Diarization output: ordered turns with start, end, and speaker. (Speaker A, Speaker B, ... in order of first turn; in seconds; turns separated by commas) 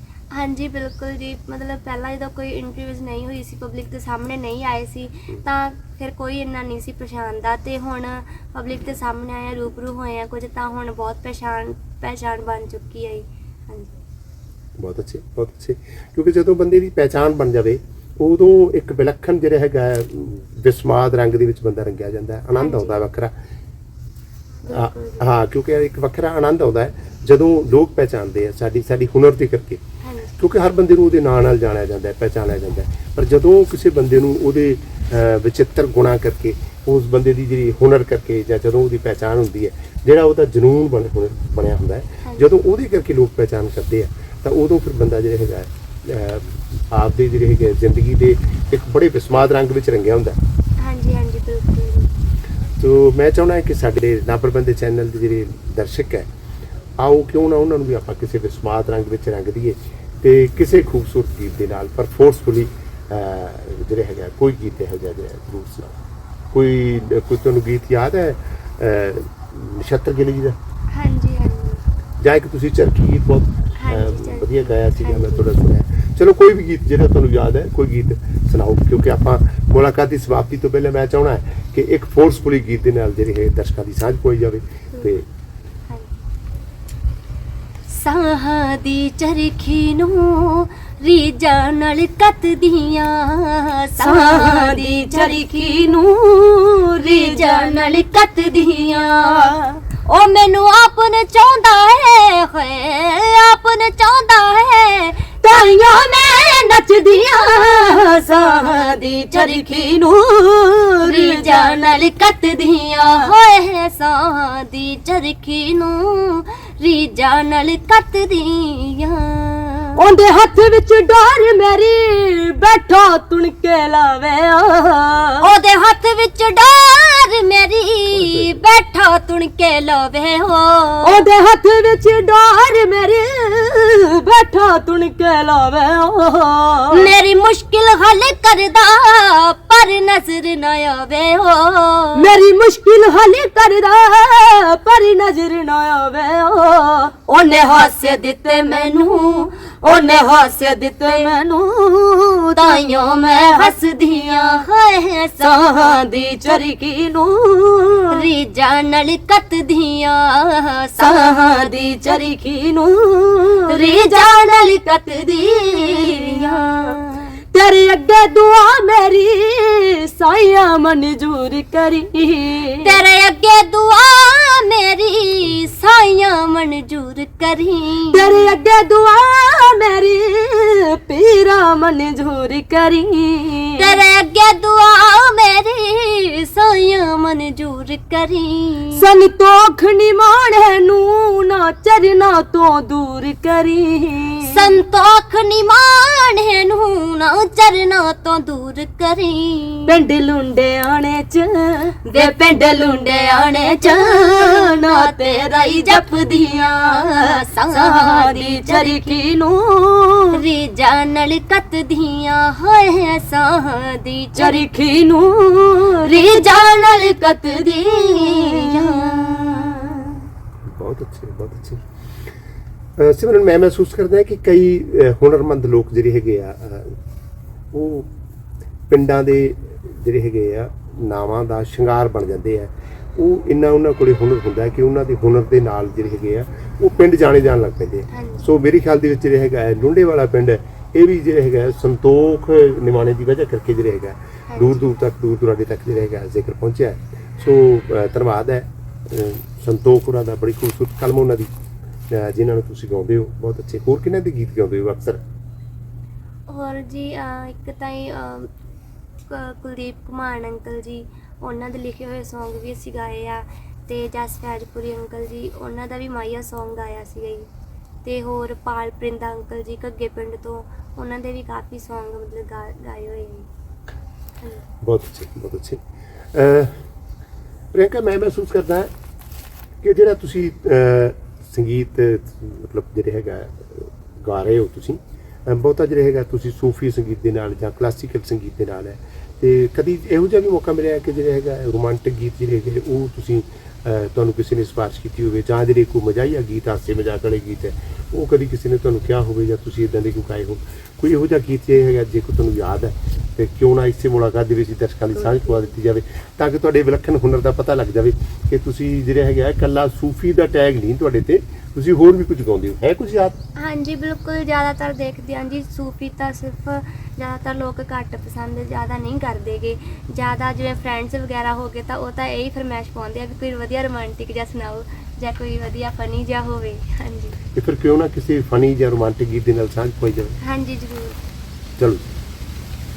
Speaker A: 0.3-13.9, Speaker B: 14.8-23.3, Speaker A: 22.6-23.0, Speaker A: 24.6-25.2, Speaker B: 24.7-29.8, Speaker A: 30.0-30.3, Speaker B: 30.4-50.4, Speaker A: 50.8-52.1, Speaker B: 52.8-56.3, Speaker B: 57.0-66.0, Speaker B: 66.5-70.6, Speaker A: 70.9-71.8, Speaker B: 72.2-85.2, Speaker A: 73.8-75.4, Speaker A: 85.9-86.2, Speaker A: 87.9-95.9, Speaker C: 94.0-98.0, Speaker A: 97.0-105.3, Speaker C: 99.1-99.8, Speaker C: 105.4-113.3, Speaker A: 108.7-109.9, Speaker A: 111.0-120.0, Speaker C: 120.0-125.3, Speaker A: 125.4-131.2, Speaker B: 128.1-128.6, Speaker C: 131.0-137.1, Speaker A: 136.9-142.2, Speaker C: 142.1-154.7, Speaker A: 147.7-149.5, Speaker A: 152.6-156.0, Speaker C: 155.4-158.1, Speaker A: 158.1-161.6, Speaker C: 161.0-164.3, Speaker A: 163.7-167.4, Speaker C: 165.2-167.0, Speaker C: 167.5-173.0, Speaker A: 172.8-178.5, Speaker C: 178.1-183.9, Speaker A: 183.8-189.0, Speaker C: 188.9-194.6, Speaker A: 194.4-199.9, Speaker C: 199.9-210.4, Speaker A: 202.1-209.2, Speaker A: 210.3-214.6, Speaker C: 214.3-220.1, Speaker A: 216.0-219.8, Speaker B: 220.6-221.8, Speaker B: 223.0-227.0, Speaker B: 227.7-228.1, Speaker B: 228.9-251.5, Speaker A: 238.1-238.4, Speaker A: 244.5-244.8, Speaker B: 252.1-255.2, Speaker A: 256.5-258.5, Speaker A: 259.3-267.5, Speaker A: 268.0-273.5, Speaker B: 274.8-276.8, Speaker B: 277.7-278.9, Speaker B: 279.8-313.4, Speaker A: 305.3-305.6, Speaker A: 313.6-327.4, Speaker B: 327.5-330.4, Speaker A: 330.4-331.2, Speaker B: 331.8-332.0